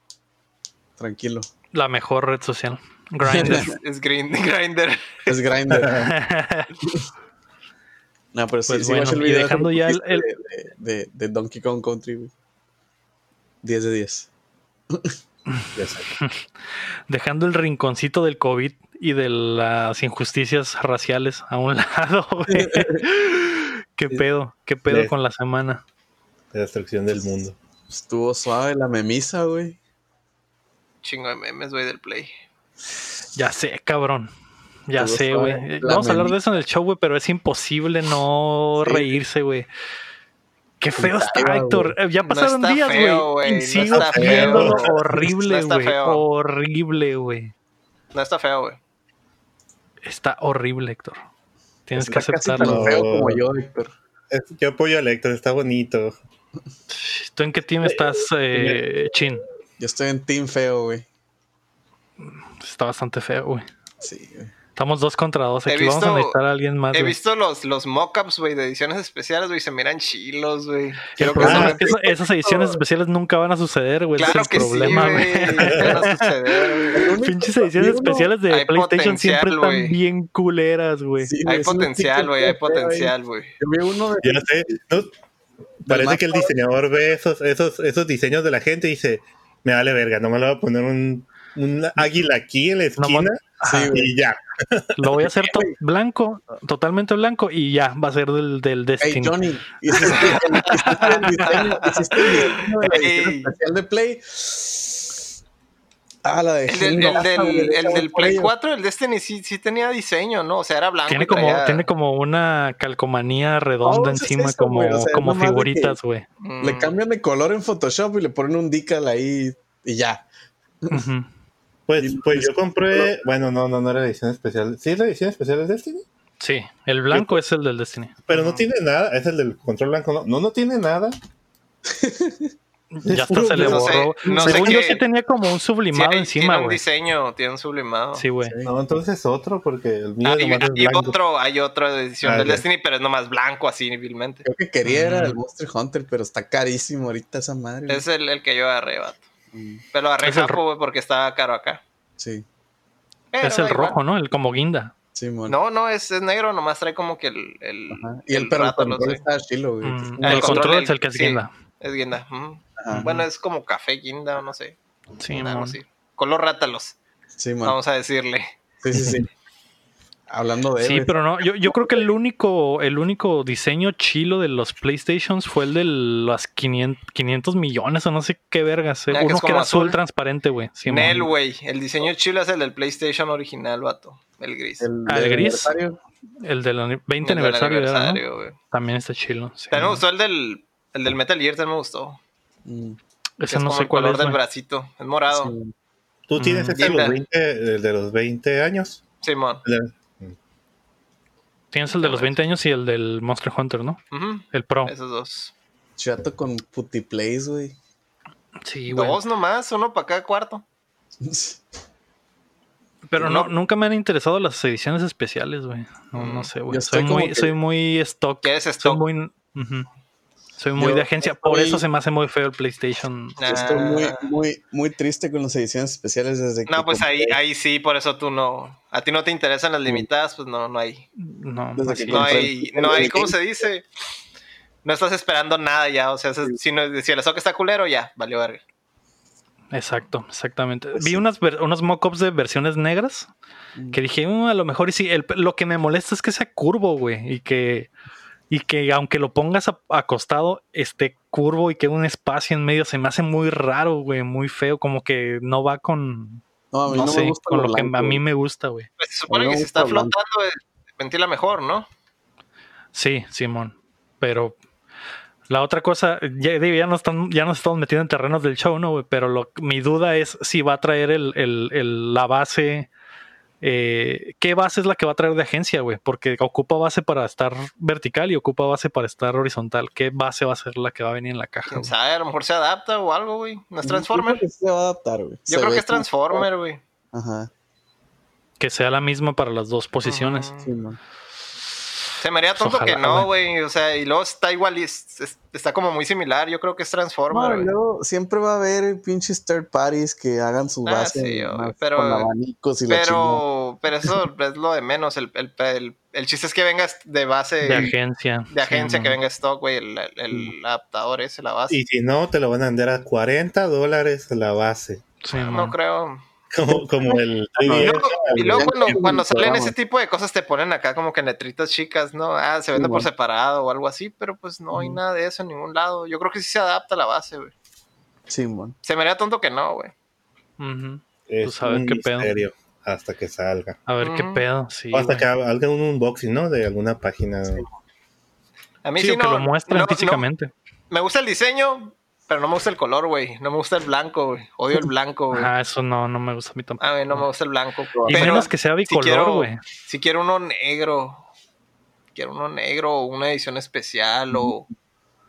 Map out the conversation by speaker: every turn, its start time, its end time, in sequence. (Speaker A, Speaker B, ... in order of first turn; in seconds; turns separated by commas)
Speaker A: 1.0-1.5, Speaker B: 1.7-3.8, Speaker A: 3.2-3.7, Speaker C: 3.4-5.3, Speaker A: 5.2-6.1, Speaker D: 5.7-6.1, Speaker B: 6.0-6.7, Speaker A: 8.3-12.3, Speaker B: 8.7-10.3, Speaker A: 13.6-14.3, Speaker A: 14.9-15.2, Speaker B: 15.5-16.5, Speaker D: 15.8-16.1, Speaker B: 17.1-25.8, Speaker A: 22.5-23.0, Speaker D: 26.5-27.6, Speaker A: 27.9-29.8, Speaker C: 31.0-32.3, Speaker B: 33.3-34.3, Speaker B: 34.9-39.7, Speaker A: 35.0-36.4, Speaker A: 38.8-39.1, Speaker B: 40.8-47.5, Speaker A: 41.0-41.9, Speaker C: 42.2-46.2, Speaker A: 43.9-45.0, Speaker D: 44.1-44.9, Speaker C: 48.1-48.8, Speaker B: 50.0-51.2, Speaker B: 51.9-53.0, Speaker A: 52.0-53.9, Speaker D: 52.6-53.4, Speaker D: 54.3-56.2, Speaker B: 56.9-59.4, Speaker D: 57.8-58.8, Speaker A: 59.8-61.0, Speaker B: 62.2-63.7, Speaker A: 64.0-64.5, Speaker B: 64.8-67.2, Speaker C: 65.7-66.4, Speaker C: 66.9-72.7, Speaker B: 71.2-81.3, Speaker A: 71.2-72.0, Speaker D: 71.4-71.8, Speaker C: 74.2-77.1, Speaker A: 74.3-75.2, Speaker D: 75.6-76.0, Speaker A: 76.9-78.3, Speaker C: 78.5-80.0, Speaker A: 81.2-84.8, Speaker C: 81.5-83.5, Speaker D: 84.2-85.1, Speaker D: 85.8-95.3, Speaker A: 85.9-86.5, Speaker B: 93.0-93.9, Speaker A: 93.6-94.1, Speaker B: 95.0-101.6, Speaker A: 95.4-95.8, Speaker A: 99.0-105.1, Speaker C: 99.9-103.5, Speaker A: 106.2-108.5, Speaker C: 106.7-111.9, Speaker B: 111.1-116.2, Speaker A: 113.8-116.0, Speaker C: 116.4-116.9, Speaker A: 116.6-120.2, Speaker B: 120.9-121.3, Speaker D: 121.9-126.0, Speaker A: 122.0-123.2, Speaker B: 126.4-128.2, Speaker D: 127.1-127.4, Speaker D: 128.3-131.2, Speaker C: 128.3-128.7, Speaker A: 131.9-132.5, Speaker B: 132.9-136.8, Speaker D: 133.1-133.9, Speaker C: 133.6-135.0, Speaker A: 134.2-134.9, Speaker C: 135.9-138.2, Speaker B: 138.1-138.6, Speaker A: 138.4-138.7, Speaker D: 138.6-141.2, Speaker C: 140.2-144.4, Speaker D: 142.2-142.6, Speaker A: 144.4-148.1, Speaker B: 144.8-145.4, Speaker C: 147.9-149.2, Speaker A: 149.5-149.8, Speaker C: 149.9-151.8, Speaker B: 150.2-150.6, Speaker A: 152.2-152.4, Speaker C: 153.3-154.0, Speaker B: 153.4-154.9, Speaker A: 155.2-155.6, Speaker C: 155.5-159.2, Speaker A: 157.9-160.8, Speaker B: 159.8-161.5, Speaker C: 160.2-164.8, Speaker A: 162.8-163.1, Speaker B: 162.9-163.2, Speaker B: 165.2-165.8, Speaker C: 165.3-166.9, Speaker A: 167.3-167.8, Speaker C: 167.6-168.5, Speaker A: 168.8-169.3, Speaker D: 168.9-169.2, Speaker A: 170.3-172.1, Speaker B: 170.8-181.3, Speaker C: 179.1-180.0, Speaker C: 180.8-184.9, Speaker A: 184.8-186.0, Speaker B: 185.1-185.8, Speaker B: 186.4-190.0, Speaker C: 187.2-188.6, Speaker C: 189.7-192.2, Speaker A: 192.7-193.0, Speaker B: 193.4-194.4, Speaker C: 193.5-195.5, Speaker A: 195.3-195.7, Speaker D: 196.3-199.0, Speaker B: 196.4-196.9, Speaker C: 196.8-197.2, Speaker C: 199.2-199.6, Speaker D: 199.6-200.3, Speaker B: 201.7-204.0, Speaker C: 202.0-202.3, Speaker C: 204.1-205.5, Speaker B: 204.5-204.9, Speaker A: 206.0-207.8, Speaker B: 208.7-209.2, Speaker C: 208.9-210.6, Speaker A: 211.2-211.6, Speaker B: 213.1-219.9, Speaker A: 213.2-213.5, Speaker C: 216.2-216.5, Speaker A: 216.7-217.5, Speaker C: 218.4-219.0, Speaker B: 220.6-223.7, Speaker A: 220.8-221.8, Speaker C: 223.4-224.3, Speaker A: 223.4-227.4, Speaker C: 226.7-231.1, Speaker B: 231.2-232.5, Speaker A: 231.8-233.3, Speaker C: 232.1-233.8, Speaker C: 234.8-238.6, Speaker B: 239.7-243.3, Speaker A: 240.9-241.2, Speaker B: 243.9-247.9, Speaker B: 248.5-258.9, Speaker A: 256.7-258.2, Speaker C: 259.0-261.9, Speaker A: 259.3-260.1, Speaker B: 262.9-264.6, Speaker B: 265.5-272.9, Speaker B: 273.6-281.9, Speaker C: 281.7-284.4, Speaker A: 283.8-286.4, Speaker C: 285.5-286.8, Speaker A: 287.1-287.5, Speaker B: 288.6-290.5, Speaker C: 290.1-290.7, Speaker A: 290.6-291.0, Speaker C: 292.2-297.7, Speaker B: 292.6-293.3, Speaker A: 297.3-303.4, Speaker C: 300.8-302.3, Speaker C: 302.9-307.9, Speaker B: 307.6-309.2, Speaker C: 308.5-311.8, Speaker D: 311.7-315.0, Speaker B: 315.2-315.8, Speaker C: 315.3-316.2, Speaker D: 316.5-319.1, Speaker A: 316.7-319.8, Speaker C: 317.7-327.5, Speaker A: 322.7-323.1, Speaker A: 324.7-325.0, Speaker A: 328.3-328.8, Speaker C: 328.8-329.9, Speaker B: 330.6-332.3, Speaker D: 331.3-333.8, Speaker B: 333.9-335.3, Speaker C: 334.0-334.4, Speaker D: 334.9-337.7, Speaker C: 338.8-340.3, Speaker B: 339.0-340.5, Speaker C: 340.9-345.5, Speaker B: 345.3-347.2, Speaker C: 346.8-351.2, Speaker A: 347.9-348.5, Speaker B: 348.1-349.6, Speaker C: 352.1-354.7